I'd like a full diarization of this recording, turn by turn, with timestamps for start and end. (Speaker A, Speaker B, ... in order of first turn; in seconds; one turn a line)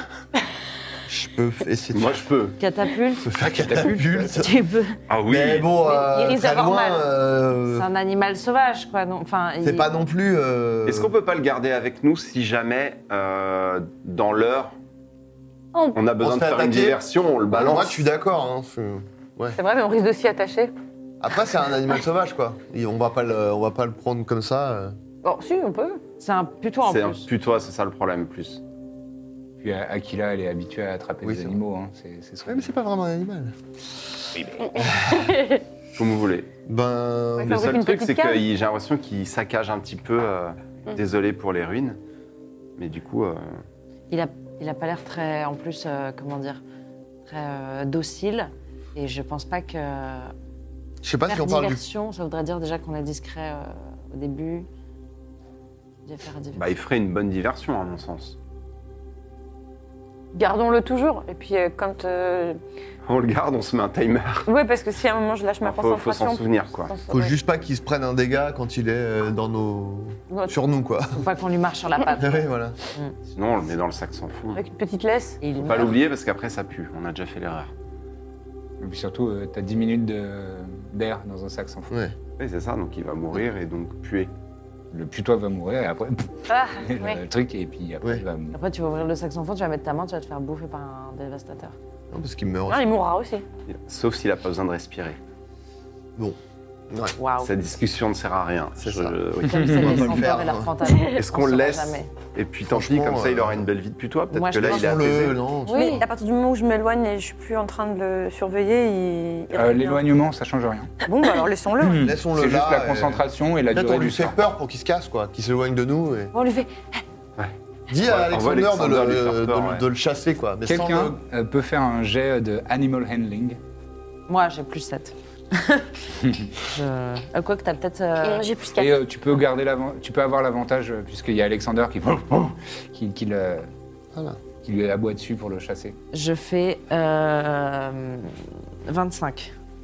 Speaker A: 1.1-2.3
Speaker B: 1.9-2.6
Speaker C: 2.6-3.3
Speaker A: 3.2-4.5
Speaker D: 3.4-4.4
Speaker C: 4.2-5.0
Speaker B: 5.1-5.8
Speaker A: 5.2-7.9
Speaker E: 5.8-7.0
Speaker C: 7.7-9.9
Speaker A: 9.6-11.1
Speaker B: 10.9-14.7
Speaker F: 15.7-16.0
Speaker B: 15.9-18.1
Speaker A: 16.2-19.6
Speaker E: 19.6-20.7
Speaker A: 21.2-25.0
Speaker E: 25.2-26.0
Speaker C: 26.2-27.3
Speaker B: 26.8-28.6
Speaker D: 29.6-32.7
Speaker A: 31.2-31.6
Speaker A: 32.5-33.6
Speaker D: 34.3-34.9
Speaker F: 34.6-35.6
Speaker A: 34.8-35.3
Speaker B: 35.9-36.5
Speaker A: 36.7-37.8
Speaker E: 37.4-38.5
Speaker B: 37.4-42.0
Speaker B: 42.8-43.6
Speaker C: 44.1-46.6
Speaker C: 47.3-50.3
Speaker A: 51.0-51.8
Speaker C: 51.3-54.7
Speaker C: 56.0-56.7
Speaker B: 56.5-58.4
Speaker E: 60.3-62.6
Speaker B: 63.1-64.5
Speaker E: 64.5-67.4
Speaker B: 65.6-66.9
Speaker A: 67.1-71.2
Speaker C: 71.2-73.2
Speaker A: 72.2-72.8
Speaker B: 73.3-74.7
Speaker E: 74.5-75.4
Speaker C: 75.4-76.0
Speaker B: 75.6-77.7
Speaker D: 78.8-81.9
Speaker A: 81.9-82.2
Speaker B: 82.4-84.3
Speaker D: 84.9-88.6
Speaker F: 86.5-87.2
Speaker C: 88.5-91.8
Speaker A: 92.1-92.9
Speaker E: 92.7-93.4
Speaker B: 93.7-95.2
Speaker A: 96.9-97.2
Speaker C: 97.2-97.5
Speaker B: 97.4-100.2
Speaker A: 98.8-100.7
Speaker C: 99.4-102.1
Speaker D: 99.6-100.2
Speaker B: 101.1-105.4
Speaker A: 102.7-103.7
Speaker C: 104.3-104.9
Speaker A: 104.5-106.1
Speaker C: 105.7-106.0
Speaker E: 105.7-110.1
Speaker D: 109.5-110.9
Speaker E: 111.0-112.1
Speaker D: 111.8-114.4
Speaker A: 112.0-116.3
Speaker C: 116.3-117.0
Speaker B: 117.4-119.9
Speaker A: 117.9-121.2
Speaker D: 120.7-123.6
Speaker C: 124.3-125.9
Speaker D: 126.2-126.5
Speaker C: 126.6-128.5
Speaker F: 128.2-129.0
Speaker D: 128.8-133.7
Speaker A: 134.1-134.4
Speaker D: 134.6-136.0
Speaker C: 136.1-139.5